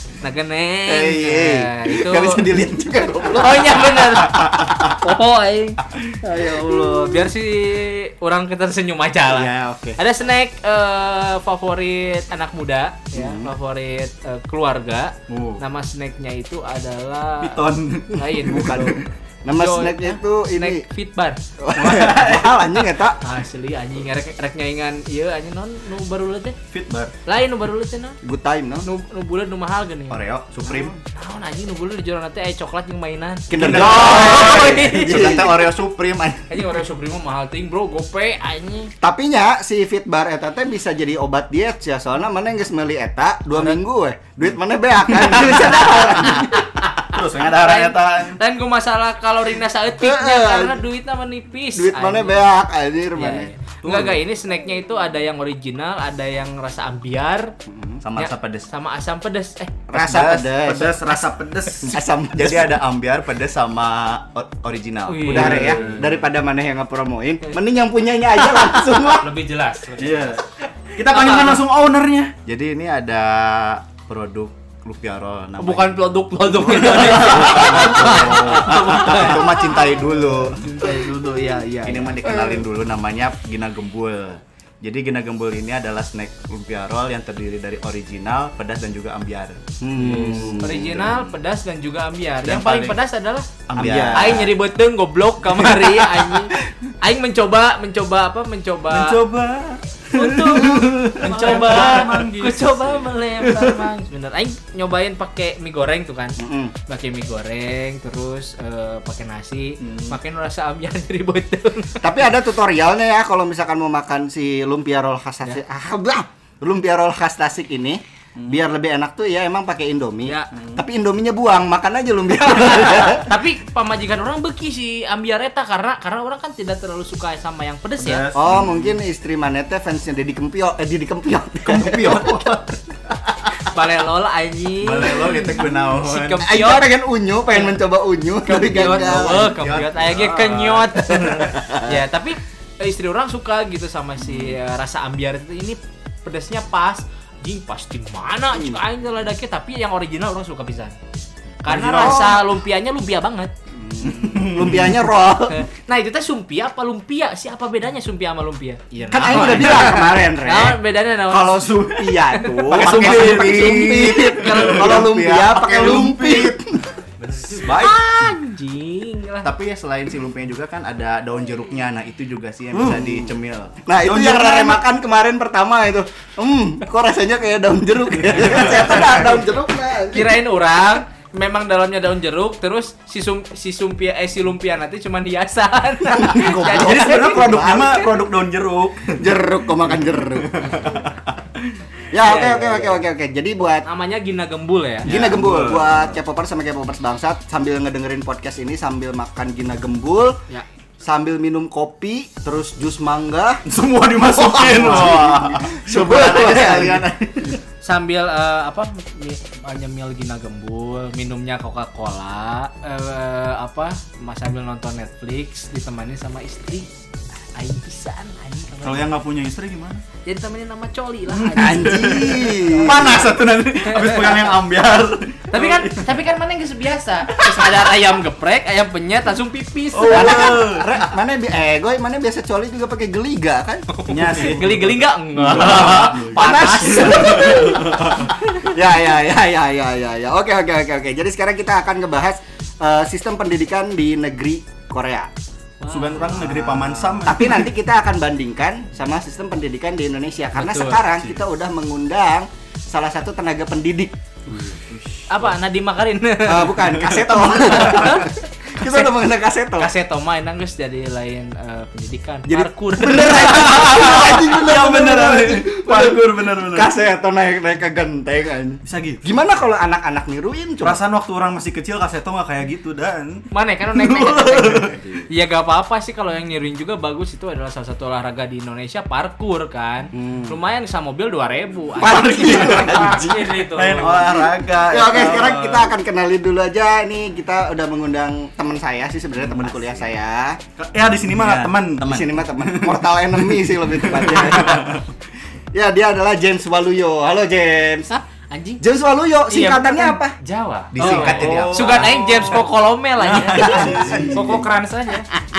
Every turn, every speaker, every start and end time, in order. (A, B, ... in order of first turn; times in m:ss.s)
0:00.2-0:02.5 A
0:00.9-0:04.6 B
0:03.2-0:19.0 A
0:09.3-0:10.0 B
0:15.3-0:15.6 C
0:17.4-0:19.0 C
0:18.4-0:20.8 B
0:19.6-0:21.4 A
0:21.6-0:23.2 B
0:21.8-0:22.8 C
0:23.2-0:26.6 A
0:26.7-0:27.1 C
0:26.8-0:27.0 D
0:27.3-0:28.2 A
0:28.2-0:28.9 B
0:28.8-0:35.7 A
0:30.1-0:30.9 D
0:33.5-0:35.7 B
0:33.5-0:34.6 C
0:33.6-0:36.4 D
0:36.5-0:38.9 A
0:39.0-0:46.8 B
0:45.2-0:45.9 C
0:46.4-0:52.5 A
0:47.1-0:48.4 C
0:47.2-0:48.3 D
0:50.0-0:50.8 B
0:51.8-0:53.5 B
0:53.2-0:57.5 A
0:53.9-0:54.2 C
0:57.7-0:58.0 B
0:58.0-0:58.7 D
0:58.2-0:59.8 A
0:59.9-1:01.0 B
0:59.9-1:01.0 D
1:00.5-1:02.0 C
1:01.8-1:02.8 B
1:02.4-1:05.6 D
1:05.1-1:05.7 E
1:05.2-1:05.9 A
1:05.2-1:09.4 B
1:05.3-1:06.2 C
1:09.2-1:10.3 E
1:10.0-1:10.4 C
1:10.0-1:10.3 D
1:11.0-1:12.4 C
1:11.1-1:11.6 A
1:12.4-1:31.4 D
1:15.6-1:22.6 A
1:16.7-1:20.6 C
1:29.8-1:30.8 B
1:30.0-1:30.8 C
1:30.6-1:33.5 A
1:32.4-1:33.0 D
1:33.7-1:34.5 D
1:33.8-1:34.5 B
1:34.1-1:39.2 A
1:38.9-1:42.1 C
1:40.2-1:52.1 A
1:40.2-1:42.8 E
1:46.4-1:46.7 B
1:49.8-1:50.2 C
1:52.0-2:03.2 B
1:58.4-1:58.6 C
2:00.2-2:00.5 A
2:00.5-2:00.8 C
2:03.2-2:08.3 A
2:08.0-2:09.0 C
2:08.3-2:12.3 B
2:11.7-2:12.8 C
2:13.6-2:16.9 A
2:14.8-2:16.4 C
2:16.4-2:19.5 B
2:18.4-2:31.0 A
2:19.5-2:20.2 D
2:19.6-2:21.4 C
2:21.2-2:21.8 B
2:31.6-2:33.5 A
2:31.6-2:32.4 C
2:31.9-2:32.4 B
2:33.8-2:35.6 B
2:34.0-2:35.1 C
2:35.5-2:41.7 A
2:39.1-2:46.9 B
2:39.4-2:39.6 C
2:41.7-2:46.5 C
2:42.4-2:45.0 A
2:42.7-2:43.9 D
2:44.7-2:46.5 D
2:47.2-2:47.6 E
2:47.6-2:48.0 D
2:47.6-2:49.5 A
2:49.4-2:53.8 D
2:52.7-2:53.2 C
2:53.0-2:53.3 B
2:53.9-3:00.4 B
2:54.0-2:54.9 C
2:58.4-2:59.5 C
3:00.1-3:07.4 A
3:06.0-3:08.1 B
3:06.6-3:11.5 C
3:09.2-3:10.7 B
3:12.1-3:13.9 B
3:12.2-3:13.0 A
3:13.8-3:15.1 A
3:15.0-3:16.2 C
3:15.0-3:20.4 B
3:21.0-3:23.6 B
3:23.7-3:27.1 C
3:24.2-3:27.0 B
3:26.0-3:27.5 D
3:27.8-3:36.9 A
3:37.5-3:39.1 A
3:38.8-3:40.0 C
3:40.3-3:43.3 A
3:41.3-3:46.3 C
3:41.6-3:43.4 B
3:43.9-3:44.6 A
3:45.5-3:50.6 A
3:47.3-3:47.9 C
3:49.9-3:51.1 C
3:50.1-3:53.9 B
3:53.9-3:58.4 A
3:54.1-3:58.4 C
3:55.5-4:05.3 B
4:05.8-4:06.8 A
4:05.9-4:07.7 C
4:06.8-4:07.2 D
4:07.2-4:14.2 B
4:10.6-4:11.0 A
4:14.7-4:15.0 C
4:15.3-4:16.8 A
4:16.4-4:19.9 B
4:16.8-4:18.3 C
4:17.7-4:19.0 A
4:19.8-4:23.8 A
4:22.5-4:31.0 B
4:23.0-4:26.9 C
4:28.8-4:29.3 C
4:30.8-4:33.4 C
4:33.5-4:42.9 A
4:33.9-4:35.1 C
4:40.1-4:40.6 B
4:42.0-4:43.6 B
4:42.4-4:44.4 E
4:43.7-4:45.9 C
4:44.9-4:50.6 B
4:50.8-4:53.2 C
4:51.3-4:52.4 D
4:52.0-4:55.0 B
4:53.9-4:55.0 C
4:55.7-4:58.1 B
4:58.1-4:58.8 A
4:58.8-5:00.4 B
4:59.5-5:02.6 E
5:00.9-5:01.8 D
5:01.0-5:04.4 A
5:01.0-5:04.6 C
5:03.4-5:05.3 E
5:03.7-5:04.6 B